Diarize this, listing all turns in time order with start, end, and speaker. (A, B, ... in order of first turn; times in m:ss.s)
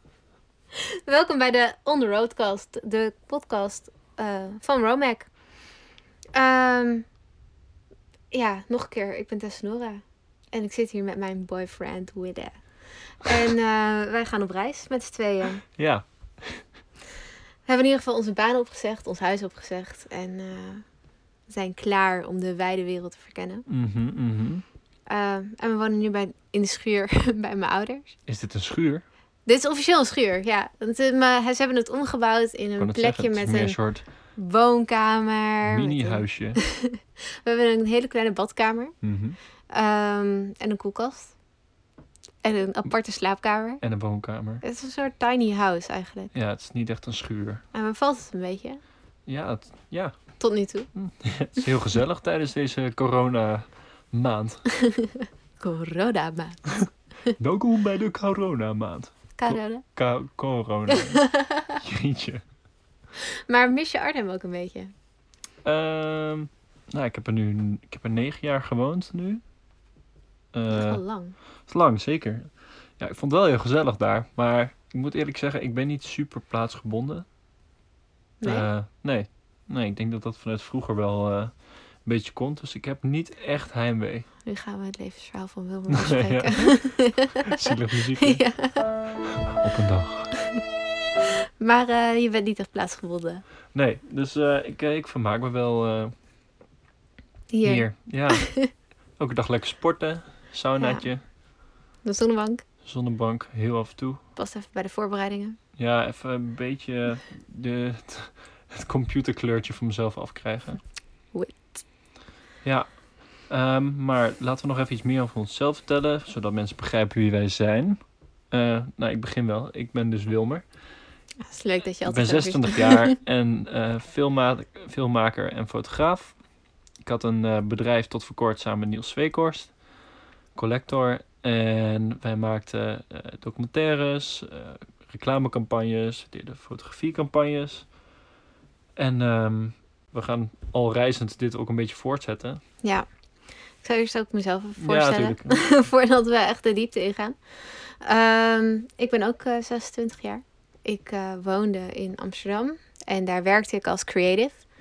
0:00.7-0:05.3 A
0:06.3-0:07.0 A
0:08.3-0:12.6 A
0:13.2-0:15.6 A
0:15.7-0:16.6 B
0:17.7-0:20.8 A
0:21.5-0:23.6 A
0:23.7-0:24.6 B
0:25.1-0:28.2 A
0:28.3-0:29.0 B
0:29.5-0:33.8 A
0:32.8-0:34.0 B
0:34.4-0:38.9 A
0:35.6-0:36.6 B
0:39.0-0:39.4 B
0:39.7-0:41.3 A
0:42.4-0:43.8 A
0:43.8-0:44.6 B
0:44.6-0:46.3 A
0:46.3-0:47.6 B
0:47.7-0:48.8 A
0:49.2-0:50.2 B
0:50.4-0:50.9 A
0:50.9-0:54.6 B
0:54.8-0:57.3 A
0:57.4-1:02.4 B
0:59.4-0:59.8 A
1:00.9-1:01.8 A
1:03.2-1:04.9 A
1:05.6-1:09.4 B
1:10.5-1:11.0 B
1:10.7-1:11.4 A
1:11.7-1:17.2 B
1:18.4-1:18.7 A
1:18.4-1:24.2 B
1:24.4-1:28.9 A
1:25.9-1:28.4 B
1:29.3-1:30.3 B
1:30.4-1:30.6 A
1:31.2-1:33.4 A
1:33.7-1:36.1 B
1:37.5-1:38.7 A
1:37.6-1:38.5 B
1:39.2-1:41.2 B
1:40.8-1:41.0 A
1:42.0-1:42.6 A
1:42.8-1:44.2 B
1:44.4-1:45.6 A
1:45.8-1:50.8 B
1:51.3-1:51.8 A
1:52.6-1:52.9 B
1:53.5-1:58.0 B
1:58.5-2:00.6 B
2:01.4-2:03.2 A
2:02.0-2:06.4 B
2:07.0-2:09.7 B
2:10.5-2:17.9 B
2:19.0-2:22.6 B
2:23.8-2:27.4 A
2:24.8-2:25.6 B
2:28.0-2:34.6 A